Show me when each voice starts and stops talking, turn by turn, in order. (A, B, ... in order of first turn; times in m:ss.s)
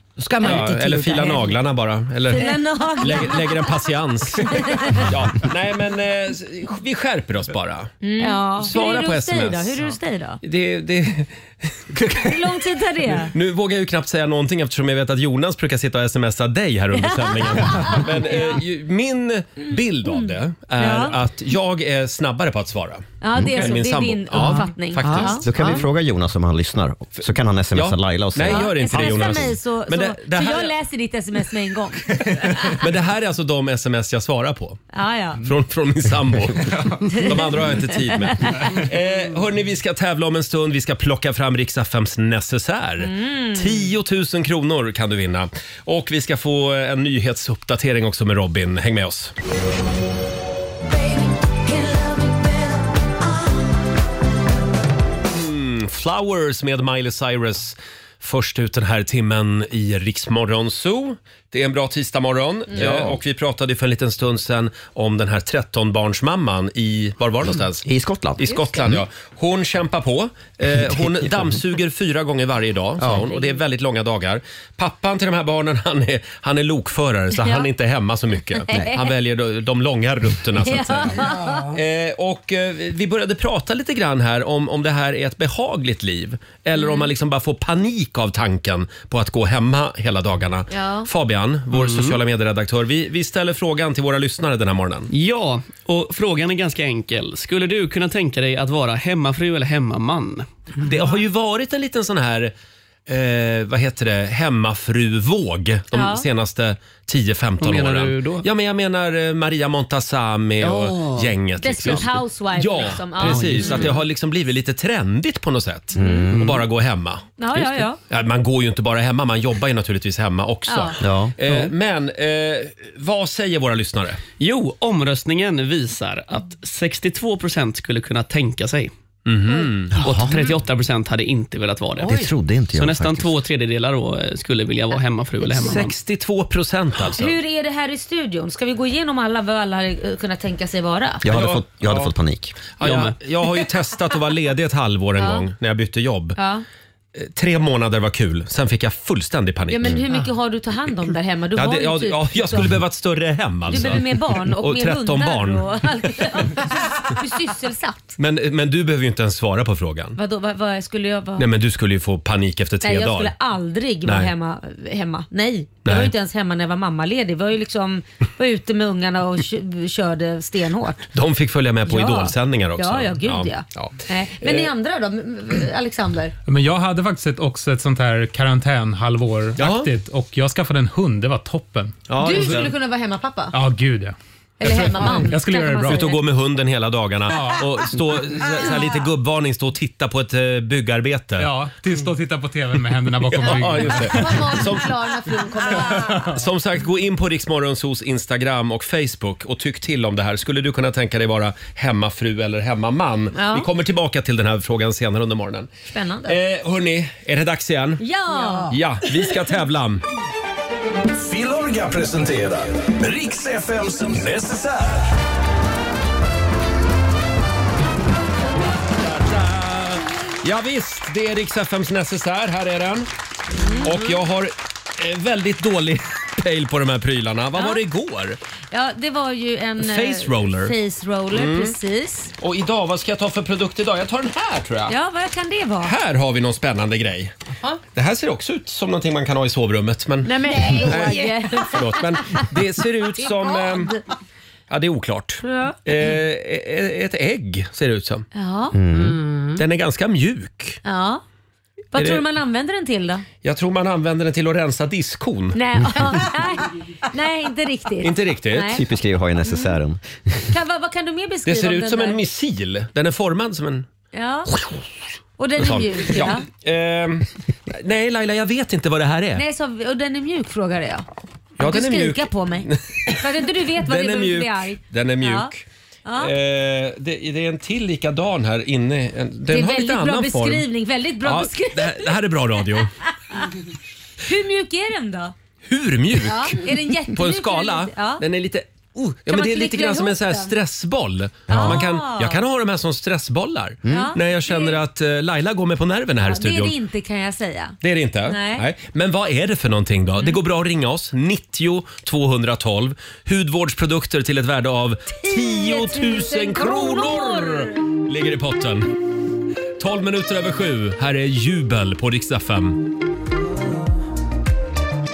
0:00.2-0:01.6 A
0:00.4-0:07.9 B
0:02.3-0:03.7 C
0:04.4-0:05.0 C
0:08.0-0:10.4 C
0:08.2-0:08.6 A
0:08.6-0:09.8 B
0:10.4-0:12.4 B
0:12.2-0:13.3 C
0:13.3-0:25.4 B
0:17.0-0:18.6 C
0:19.6-0:21.2 C
0:23.2-0:25.5 C
0:23.4-0:23.6 D
0:24.4-0:25.8 A
0:25.1-0:29.5 D
0:27.7-0:30.7 B
0:28.4-0:32.8 C
0:32.6-0:34.8 B
0:34.9-0:35.4 C
0:35.4-0:49.3 B
0:37.0-0:38.8 C
0:43.0-0:43.9 C
0:55.3-1:07.8 B
1:02.7-1:03.2 D
1:07.8-1:09.0 D
1:08.4-1:35.1 B
1:10.7-1:11.0 D
1:13.0-1:13.6 C
1:17.4-1:17.7 C
1:18.7-1:19.1 C
1:20.6-1:21.6 C
1:21.2-1:21.7 A
1:26.8-1:27.1 C
1:30.7-1:31.1 C
1:31.7-1:32.2 E
1:35.1-1:40.5 E
1:40.8-1:42.5 B
1:43.1-2:04.2 B
1:45.9-1:46.3 C
1:47.6-1:48.4 E
1:50.6-1:51.3 E
1:51.6-1:54.0 C
1:53.3-1:53.8 E
1:55.9-1:56.5 D
1:56.3-1:56.6 E
1:57.4-1:58.0 C
2:00.7-2:01.0 C
2:01.0-2:01.3 D
2:01.4-2:01.7 E
2:04.4-2:08.9 E
2:09.2-2:10.0 B
2:09.9-2:10.4 D
2:10.0-2:15.9 E
2:12.0-2:13.4 D
2:15.4-2:17.3 B
2:17.1-2:21.2 C
2:21.2-2:22.6 D
2:21.3-2:22.1 B
2:22.8-2:26.4 B
2:22.8-2:23.2 E
2:25.2-2:25.4 C
2:26.4-2:26.6 C
2:27.1-2:30.0 B
2:29.7-2:32.8 C
2:31.5-2:36.2 B
2:33.7-2:38.2 C
2:38.2-2:40.2 B
2:40.2-2:41.5 C
2:41.4-2:43.3 B
2:42.8-2:51.0 C
2:44.0-2:44.3 B
2:45.8-2:46.1 B
2:51.1-2:54.7 B
2:51.8-2:56.3 C
2:56.5-3:02.7 F
2:59.6-2:59.9 B
3:02.1-3:02.7 B
3:02.2-3:03.6 C
3:03.5-3:06.1 F
3:04.6-3:06.2 C
3:05.9-3:11.5 B
3:07.3-3:07.7 F
3:11.4-3:14.6 F
3:13.3-3:14.9 B
3:14.0-3:16.2 C
3:16.1-3:16.3 F
3:16.3-3:25.7 B
3:23.3-3:23.7 C
3:25.9-3:26.4 C
3:26.2-3:28.0 B
3:28.0-3:28.7 C
3:28.4-3:28.6 A
3:28.7-3:30.0 B
3:31.1-3:35.1 G
3:38.9-3:43.1 B
3:43.6-3:43.9 C
3:43.8-3:48.4 B
3:48.7-3:52.3 C
3:49.8-3:50.7 B
3:51.3-3:51.7 B
3:52.4-3:54.9 B
3:54.9-3:55.9 C
3:55.8-3:57.3 B
3:57.9-4:03.9 B
4:00.2-4:02.5 C
4:00.7-4:01.3 A
4:03.2-4:04.0 C
4:04.7-4:08.3 B
4:05.4-4:05.8 C
4:08.3-4:08.8 C
4:08.7-4:09.2 D
4:09.2-4:09.5 A
4:09.6-4:10.8 B
4:10.8-4:11.2 C
4:11.9-4:13.2 C
4:11.9-4:12.2 B
4:13.4-4:15.6 B
4:15.5-4:18.8 C
4:18.0-4:18.8 B
4:18.7-4:20.4 D
4:19.4-4:19.7 C
4:20.5-4:22.2 C
4:21.4-4:23.9 B
4:24.1-4:24.5 C
4:25.4-4:26.4 C
4:25.6-4:29.4 B
4:29.3-4:31.0 C
4:31.6-4:35.5 C
4:31.6-4:35.6 B
4:36.0-4:36.3 C
4:36.2-4:40.6 B
4:39.5-4:42.1 C
4:41.2-4:42.9 B
4:44.2-4:45.3 C
4:45.6-4:56.7 B
4:46.2-4:48.2 C
4:49.3-4:50.5 C
4:51.5-4:52.4 C
4:51.5-4:51.8 D
4:53.8-4:54.1 D
4:53.9-4:54.8 C
4:56.2-4:58.7 C
4:57.8-5:08.9 B
5:05.1-5:07.8 C
5:09.8-5:12.8 B